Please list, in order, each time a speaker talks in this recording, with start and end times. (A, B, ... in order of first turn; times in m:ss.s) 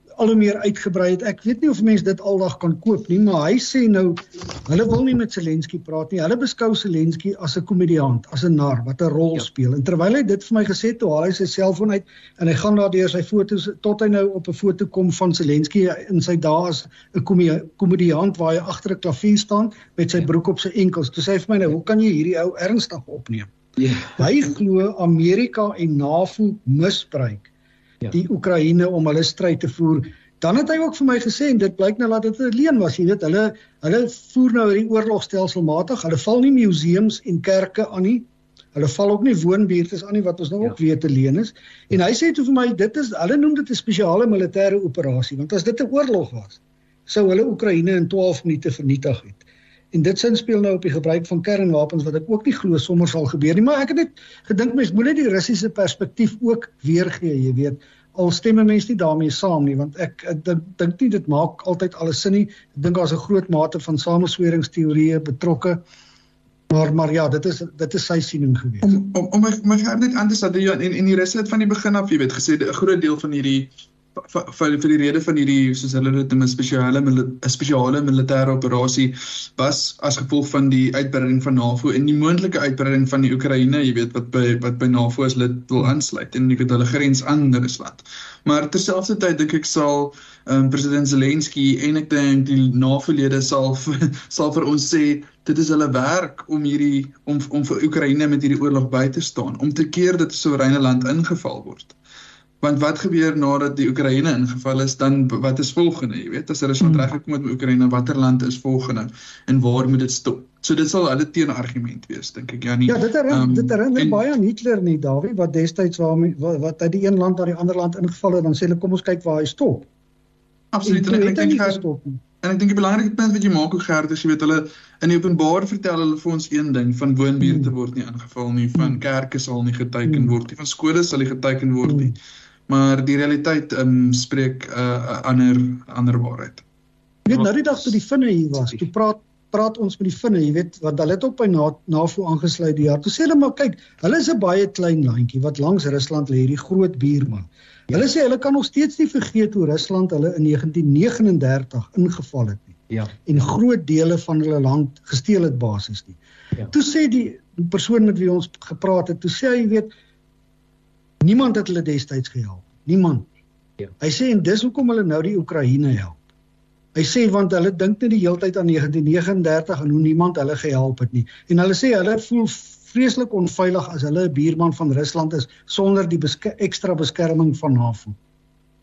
0:00.2-0:23.5 A
0:24.1-0:27.5 A
0:28.1-1:05.8 A
1:06.7-1:08.9 A
1:08.8-1:42.0 B
1:42.6-1:54.2 B
1:46.8-1:47.1 A
1:52.9-1:59.9 A
2:00.7-2:01.8 B
2:00.8-2:02.2 A
2:02.4-2:12.2 B
2:07.4-2:07.7 A
2:10.1-2:10.3 A
2:11.9-2:12.1 A
2:12.7-2:16.6 B
2:17.3-2:36.2 A
2:36.7-2:39.9 A
2:41.2-2:43.3 A
2:44.0-2:46.2 A
2:47.0-2:58.2 A